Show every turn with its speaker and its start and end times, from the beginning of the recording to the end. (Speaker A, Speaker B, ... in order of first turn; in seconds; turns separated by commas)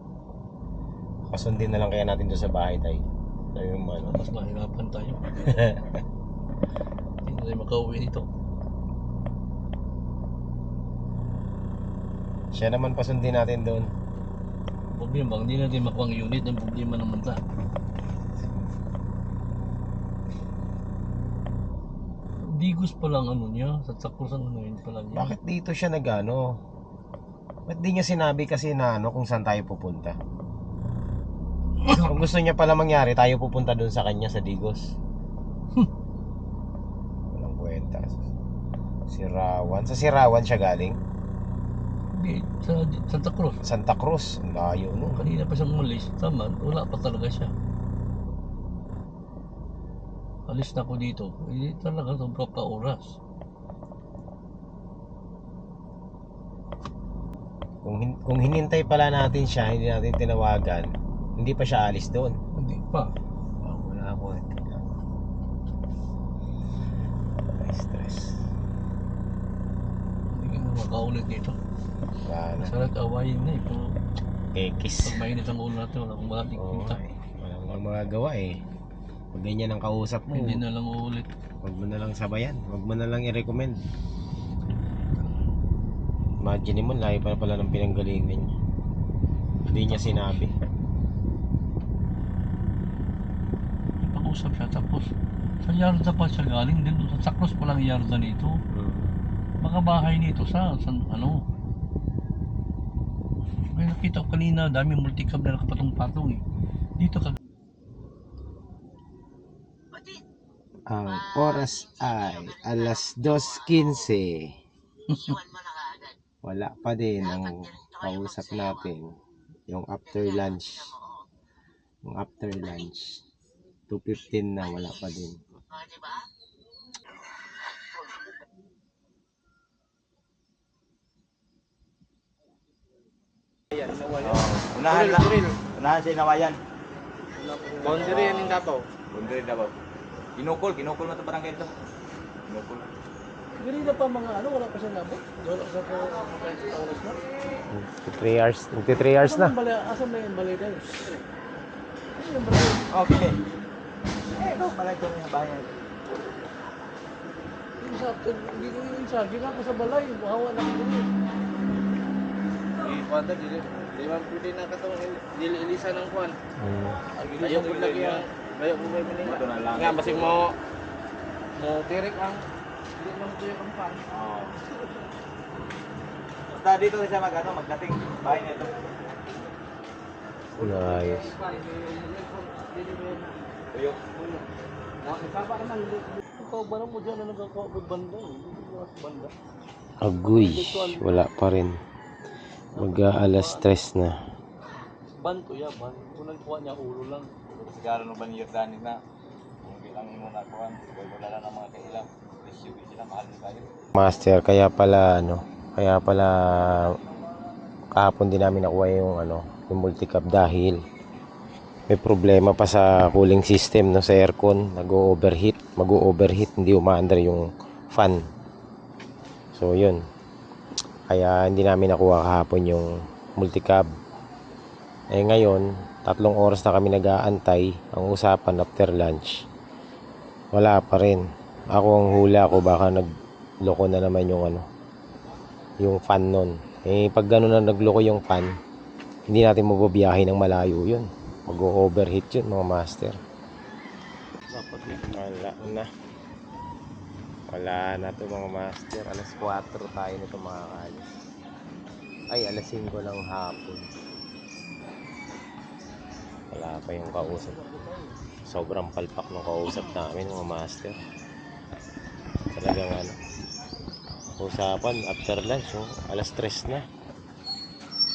Speaker A: 1.3-4.2, Speaker B: 4.0-5.5, Speaker A: 5.5-5.9, Speaker B: 7.2-8.2, Speaker A: 12.5-13.9, Speaker B: 14.9-17.4, Speaker A: 18.4-18.7, Speaker B: 22.4-25.3, Speaker A: 25.1-26.6, Speaker A: 27.7-30.2, Speaker A: 32.0-34.9, Speaker A: 37.3-38.2, Speaker A: 39.1-41.0, Speaker B: 42.1-43.6, Speaker A: 43.6-45.2, Speaker B: 45.0-47.5, Speaker B: 50.5-53.1, Speaker A: 57.8-62.4, Speaker B: 62.5-63.1, Speaker A: 63.6-64.9, Speaker A: 67.5-68.3, Speaker B: 70.3-71.6, Speaker A: 72.2-72.8, Speaker B: 72.6-73.9, Speaker A: 74.5-75.2, Speaker B: 75.0-77.0, Speaker A: 76.5-78.6, Speaker A: 79.3-80.6, Speaker B: 80.3-81.3, Speaker A: 81.6-83.8, Speaker A: 86.4-88.5, Speaker A: 89.7-90.5, Speaker B: 94.0-95.1, Speaker B: 95.6-98.6, Speaker A: 98.7-99.1, Speaker B: 99.6-101.4, Speaker B: 103.7-106.4, Speaker B: 107.0-107.3, Speaker A: 110.9-114.5, Speaker B: 115.1-115.4, Speaker A: 116.4-119.1, Speaker A: 119.7-120.9, Speaker A: 122.0-123.2, Speaker A: 123.9-125.4, Speaker C: 133.7-135.6, Speaker D: 134.2-136.6, Speaker B: 137.5-138.1, Speaker C: 137.7-138.8, Speaker D: 137.8-139.8, Speaker D: 140.4-141.7, Speaker D: 142.5-142.9, Speaker B: 143.6-147.2, Speaker A: 147.7-149.5, Speaker B: 148.9-151.2, Speaker B: 152.2-152.8, Speaker D: 152.9-153.4, Speaker D: 154.4-155.7, Speaker B: 157.8-161.1, Speaker C: 162.8-166.4, Speaker A: 166.6-167.0, Speaker B: 167.2-168.2, Speaker C: 167.4-170.5, Speaker D: 169.2-170.4, Speaker C: 171.6-172.4, Speaker C: 172.9-174.0, Speaker D: 174.1-174.5, Speaker D: 176.5-178.8, Speaker A: 180.6-181.3, Speaker C: 180.6-183.3, Speaker D: 183.7-184.4, Speaker C: 185.0-186.2, Speaker B: 186.4-189.3, Speaker A: 190.0-191.8, Speaker B: 190.3-191.2, Speaker B: 192.8-193.6, Speaker A: 192.8-194.2, Speaker B: 195.2-197.3, Speaker D: 197.5-198.9, Speaker D: 199.6-203.7, Speaker A: 203.9-206.9, Speaker A: 207.9-210.8, Speaker A: 211.9-218.2, Speaker A: 219.5-220.0, Speaker A: 221.1-223.8, Speaker A: 225.1-229.4, Speaker A: 230.5-233.1, Speaker A: 233.6-234.7, Speaker A: 235.8-238.6, Speaker A: 239.3-243.2, Speaker B: 244.5-245.2, Speaker A: 245.1-245.9, Speaker A: 247.5-251.1, Speaker A: 252.3-253.9, Speaker A: 256.5-257.6, Speaker B: 257.2-258.1, Speaker A: 258.5-261.0, Speaker A: 262.5-263.1, Speaker A: 264.4-266.9